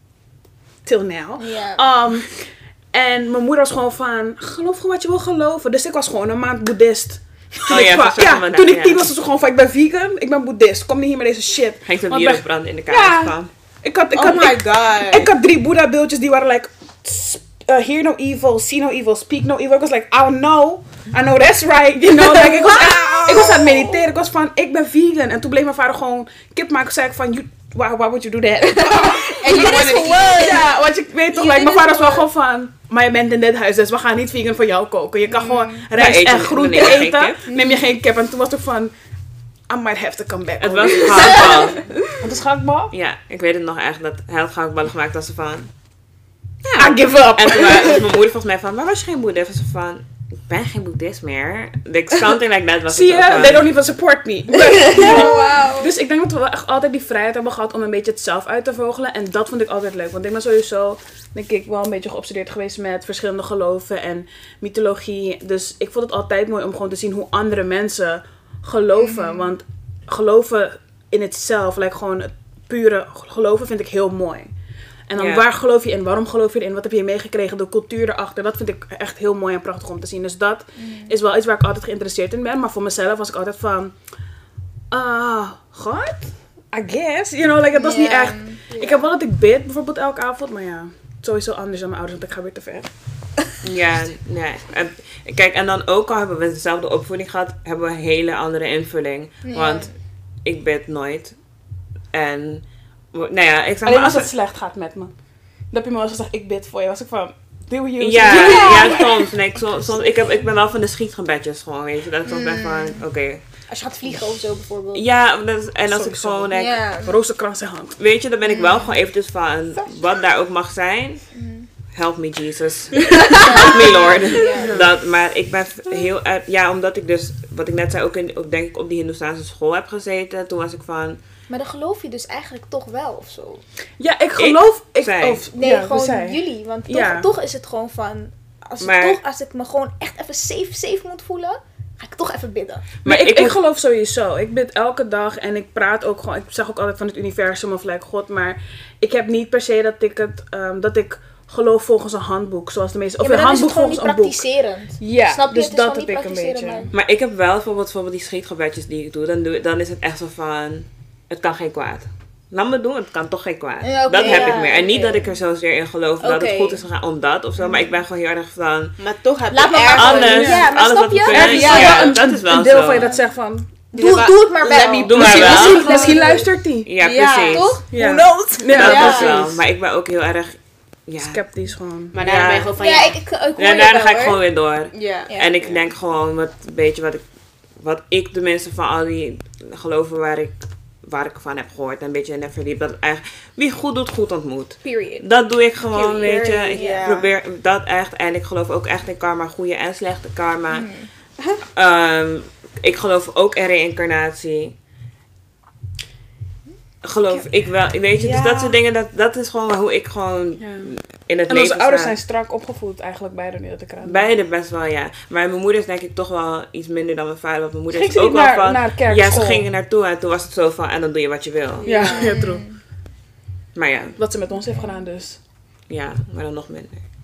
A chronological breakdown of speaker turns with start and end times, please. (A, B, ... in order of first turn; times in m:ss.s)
0:00.8-0:38.9 A
0:01.4-0:01.8 B
0:07.7-0:09.1 C
0:11.8-0:13.5 C
0:14.1-0:15.3 D
0:22.4-0:23.8 B
0:28.9-0:30.7 D
0:29.4-0:30.7 B
0:31.4-0:32.2 B
0:31.4-0:32.0 D
0:35.3-0:35.9 B
0:36.0-0:37.4 C
0:37.5-0:37.8 B
0:39.7-0:41.6 A
0:40.6-0:41.9 C
0:42.1-0:42.9 A
0:42.9-0:45.7 C
0:46.7-0:53.7 C
0:46.7-0:48.0 A
0:52.9-1:14.5 A
0:54.9-0:55.9 B
1:09.0-1:09.5 B
1:15.1-1:24.0 A
1:15.2-1:15.4 C
1:20.8-1:21.1 B
1:24.9-1:32.9 A
1:27.7-1:28.6 B
1:28.7-1:29.1 D
1:33.6-1:41.4 C
1:39.4-1:39.9 B
1:42.1-1:44.3 C
1:43.8-1:45.1 A
1:45.7-1:49.1 A
1:48.0-1:54.2 C
1:48.3-1:49.1 B
1:52.2-1:53.0 B
1:53.7-1:55.0 B
1:54.9-1:56.9 C
1:55.9-1:58.0 A
1:56.5-1:57.2 B
1:58.0-2:11.2 C
1:58.5-1:59.0 B
2:01.3-2:01.7 B
2:03.2-2:03.6 D
2:03.4-2:04.8 B
2:04.6-2:05.0 A
2:11.5-2:13.6 B
2:14.0-2:17.3 A
2:14.4-2:15.4 C
2:15.5-2:22.8 B
2:18.8-2:19.2 C
2:23.0-2:23.6 C
2:23.1-2:34.5 A
2:33.2-2:36.9 B
2:35.0-2:36.8 A
2:36.9-2:49.0 C
2:43.8-2:45.3 B
2:46.2-2:46.8 B
2:47.6-2:47.9 A
2:49.0-2:50.6 D
2:49.5-2:52.0 B
2:49.8-2:53.0 C
2:50.3-2:50.7 A
2:51.3-2:53.7 A
2:51.6-2:52.1 D
2:53.9-2:56.3 D
2:53.9-2:56.5 B
2:54.7-2:56.9 A
2:55.0-2:56.1 C
2:56.8-2:57.8 C
2:57.0-2:57.8 D
2:57.5-2:59.2 B
2:57.9-2:59.6 A
2:58.7-3:24.8 C
2:58.7-2:59.5 D
3:01.2-3:02.2 A
3:02.1-3:03.2 D
3:02.8-3:04.4 B
3:04.9-3:05.8 D
3:14.8-3:15.2 B
3:15.8-3:17.3 D
3:16.2-3:17.1 B
3:20.7-3:21.1 B
3:27.0-3:32.2 C
3:28.2-3:28.8 D
3:30.6-3:30.9 A
3:31.5-3:34.3 A
3:34.0-3:41.9 C
3:37.9-3:39.7 A
3:41.8-3:42.4 D
3:41.8-3:42.7 A
3:41.9-3:42.8 B
3:43.8-3:44.2 C
3:44.2-3:45.4 A
3:44.6-3:45.0 B
3:45.9-3:47.1 C